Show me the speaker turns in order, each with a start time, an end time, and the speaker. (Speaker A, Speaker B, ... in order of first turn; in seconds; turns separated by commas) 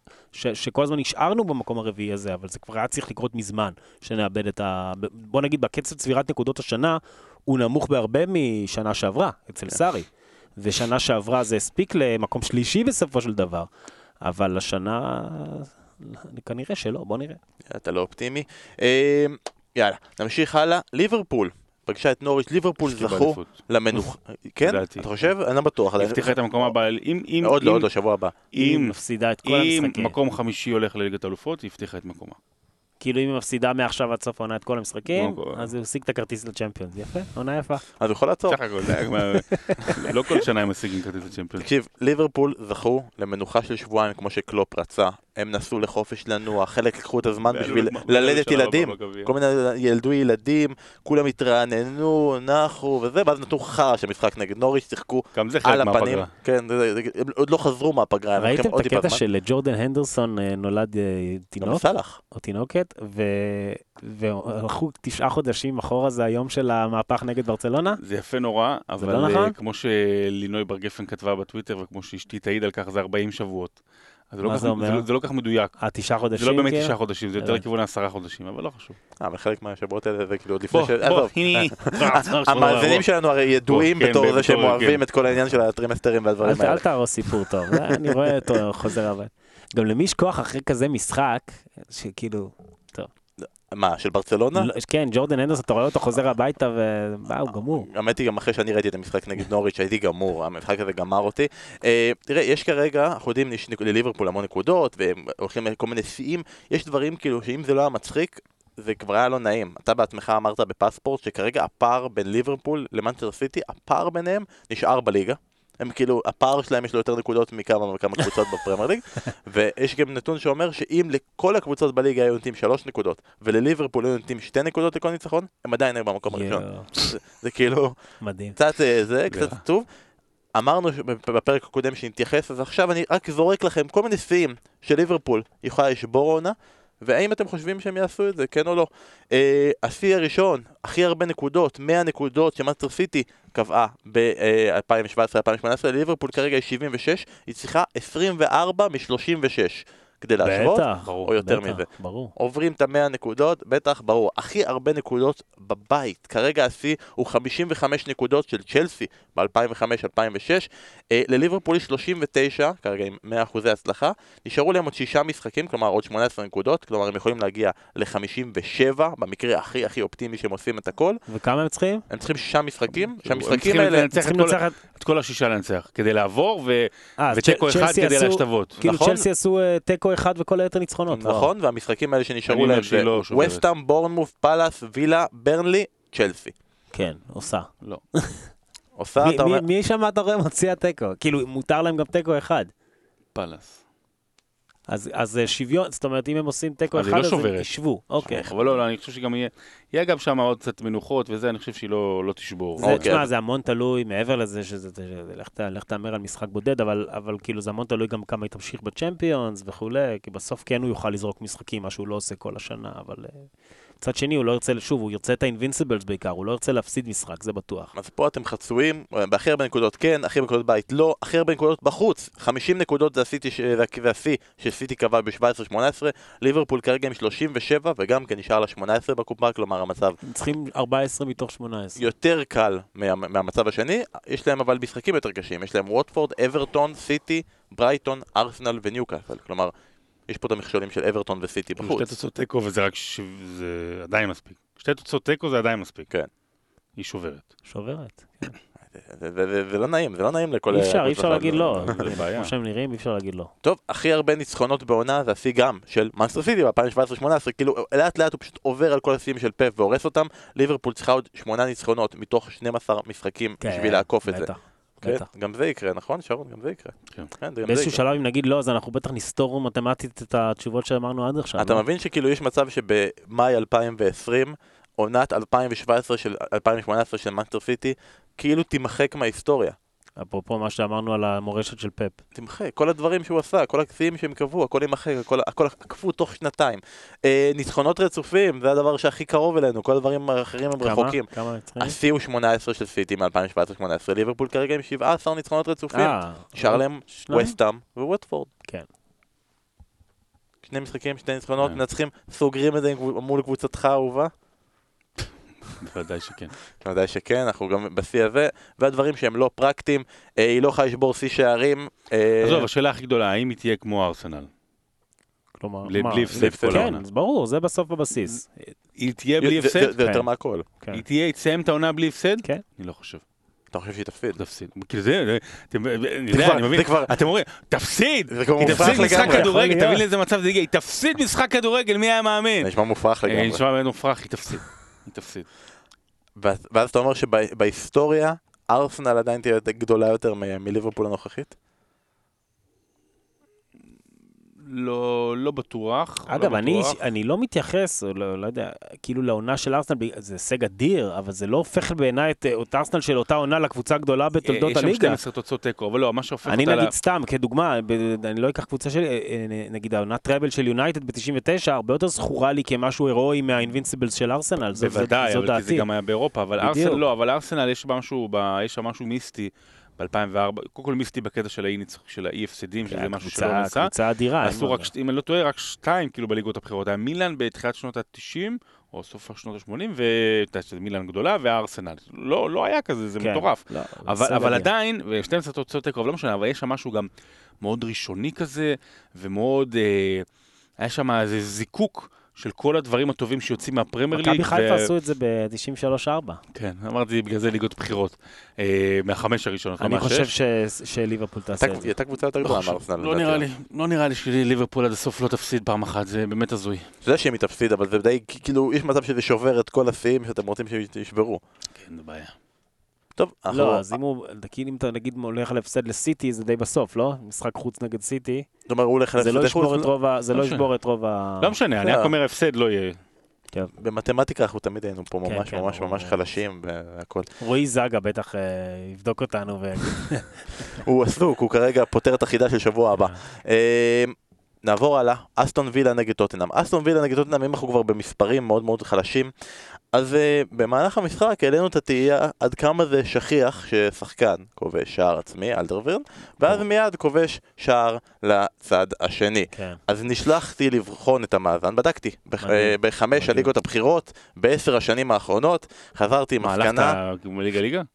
Speaker A: 0.3-13.7, Speaker A: 14.2-17.4, Speaker B: 17.7-26.7, Speaker C: 22.8-23.6, Speaker C: 24.6-25.3, Speaker C: 26.0-27.9, Speaker B: 27.4-28.4, Speaker C: 28.5-32.4, Speaker A: 28.6-30.1, Speaker A: 33.0-37.8, Speaker C: 35.1-35.7, Speaker B: 38.0-39.0, Speaker C: 38.5-41.7, Speaker A: 39.5-40.0, Speaker B: 41.6-59.2, Speaker C: 47.5-49.3, Speaker C: 55.3-56.3, Speaker A: 58.3-68.0, Speaker B: 61.6-62.2, Speaker C: 68.0-73.8, Speaker A: 69.0-69.5, Speaker C: 74.3-75.8, Speaker A: 74.4-75.1, Speaker A: 75.8-77.6, Speaker C: 76.3-79.0, Speaker B: 79.2-86.8, Speaker C: 80.7-83.0, Speaker C: 83.7-85.0, Speaker A: 86.4-93.1, Speaker B: 93.4-94.7, Speaker A: 94.5-97.9, Speaker B: 97.5-128.0, Speaker A: 126.3-127.0, Speaker A: 128.2-128.6, Speaker B: 128.6-129.9, Speaker C: 129.3-129.6, Speaker B: 130.5-171.2, Speaker A: 150.4-152.3, Speaker C: 151.0-151.3, Speaker A: 171.3-172.0, Speaker B: 172.1-174.1, Speaker C: 172.9-178.8, Speaker A: 174.1-174.8, Speaker A: 177.2-181.5, Speaker B: 178.8-179.2, Speaker B: 181.1-186.5, Speaker C: 182.5-183.6, Speaker A: 186.9-188.5, Speaker B: 188.9-189.6, Speaker A: 189.2-192.7, Speaker C: 193.3-193.8, Speaker A: 194.9-198.4, Speaker C: 196.9-197.7, Speaker C: 198.2-203.1, Speaker B: 198.2-198.8, Speaker A: 202.8-213.5, Speaker B: 202.8-203.3, Speaker A: 214.0-217.9, Speaker B: 217.9-230.2, Speaker A: 230.2-232.0, Speaker B: 231.9-239.7, Speaker B: 240.3-242.1, Speaker C: 241.8-246.1, Speaker C: 246.9-247.5, Speaker A: 247.7-248.6, Speaker B: 248.8-252.0, Speaker A: 250.7-253.5, Speaker C: 251.8-252.5, Speaker B: 253.6-264.5, Speaker A: 263.6-265.3, Speaker B: 265.0-268.0, Speaker A: 267.6-271.8, Speaker B: 271.6-279.8, Speaker A: 280.2-282.2, Speaker B: 282.3-298.5, Speaker A: 290.8-292.0, Speaker A: 295.9-297.6, Speaker B: 300.6-304.3, Speaker C: 305.8-306.6, Speaker B: 306.8-312.7, Speaker C: 312.4-314.5, Speaker A: 315.6-318.7, Speaker C: 315.8-317.0, Speaker B: 316.3-317.0, Speaker C: 318.9-319.9, Speaker B: 319.4-320.6, Speaker A: 320.0-320.3, Speaker C: 320.9-323.2, Speaker B: 323.7-324.4, Speaker C: 324.4-332.7, Speaker B: 326.3-327.1, Speaker B: 328.3-329.5, Speaker A: 328.6-330.0, Speaker B: 332.6-333.6, Speaker C: 333.2-335.5, Speaker B: 336.4-341.5, Speaker C: 344.6-347.0, Speaker A: 346.3-355.2, Speaker C: 354.4-356.9, Speaker A: 356.4-365.9, Speaker C: 364.7-387.1, Speaker A: 366.6-367.0, Speaker A: 372.9-374.9, Speaker A: 383.2-384.7, Speaker C: 387.6-390.3, Speaker C: 390.8-394.9, Speaker A: 394.1-396.4, Speaker C: 396.5-400.3, Speaker A: 399.8-401.9, Speaker B: 401.6-403.4, Speaker C: 402.4-406.9, Speaker B: 407.0-411.4, Speaker C: 411.8-412.3, Speaker B: 413.1-414.0, Speaker A: 413.5-418.5, Speaker B: 418.7-419.9, Speaker A: 419.2-421.6, Speaker C: 420.3-420.7, Speaker C: 421.4-423.0, Speaker B: 421.8-422.1, Speaker B: 423.8-427.2, Speaker A: 425.2-426.1, Speaker A: 427.4-430.7, Speaker B: 430.8-456.9, Speaker A: 449.5-449.8, Speaker A: 452.4-453.5, Speaker C: 456.4-457.9